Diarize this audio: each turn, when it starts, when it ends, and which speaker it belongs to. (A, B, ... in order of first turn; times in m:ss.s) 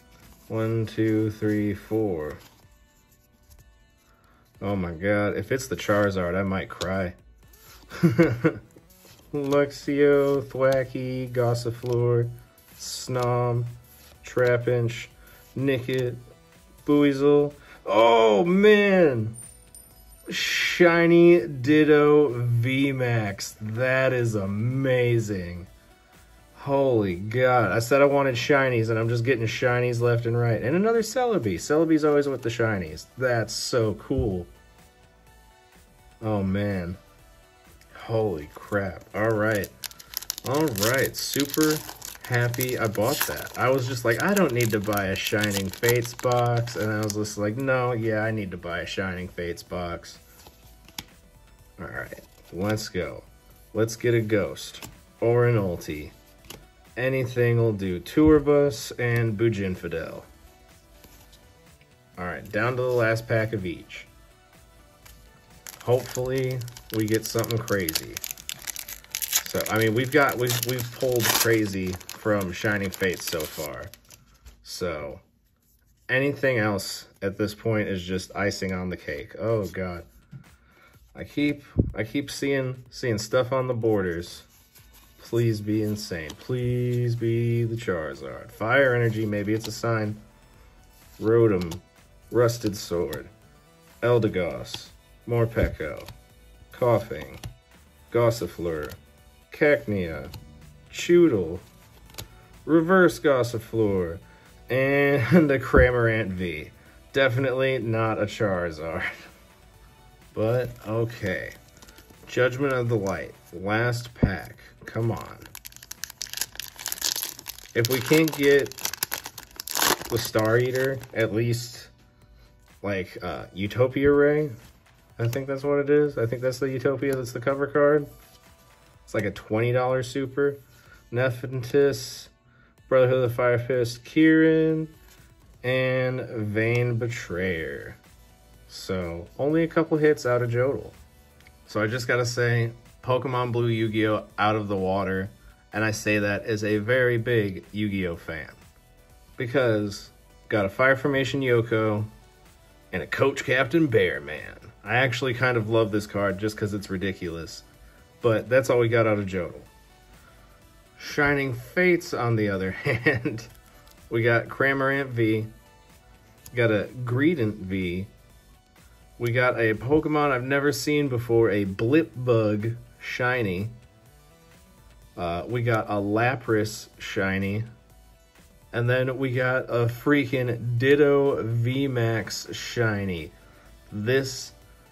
0:00.5-0:02.4 A
0:04.6-0:07.2 A
0:07.9-0:08.6 A
0:09.3-0:16.2 A
0:16.8-0:19.4 A
0:20.3-0:25.7 A
0:26.6-0:34.5 A
0:36.2-0:37.0 A
0:37.9-0:39.7 A
0:40.4-0:50.2 A
0:51.8-0:56.1 A
0:57.0-1:00.3 A
1:02.2-1:04.1 A
1:05.8-1:08.2 A
1:09.4-1:13.9 A
1:14.6-1:15.2 A
1:16.1-1:20.1 A
1:21.1-1:24.5 A
1:25.2-1:30.2 A
1:31.2-1:33.3 A
1:34.0-1:36.1 A
1:36.7-1:37.4 A
1:38.1-1:39.0 A
1:39.5-1:40.3 A
1:40.9-1:41.6 A
1:42.6-1:49.1 A
1:50.3-1:51.6 A
1:52.3-1:55.5 A
1:57.7-1:58.8 A
2:00.1-2:01.9 A
2:02.8-2:04.6 A
2:05.2-2:08.1 A
2:09.1-2:12.3 A
2:12.9-2:15.0 A
2:15.6-2:18.0 A
2:18.7-2:21.0 A
2:21.7-2:28.6 A
2:29.4-2:32.1 A
2:32.9-2:37.6 A
2:38.2-2:39.7 A
2:41.0-2:43.5 A
2:44.1-2:45.5 A
2:46.5-2:48.1 A
2:49.2-2:53.8 A
2:55.2-2:57.7 A
2:58.7-3:03.3 A
3:03.9-3:04.6 A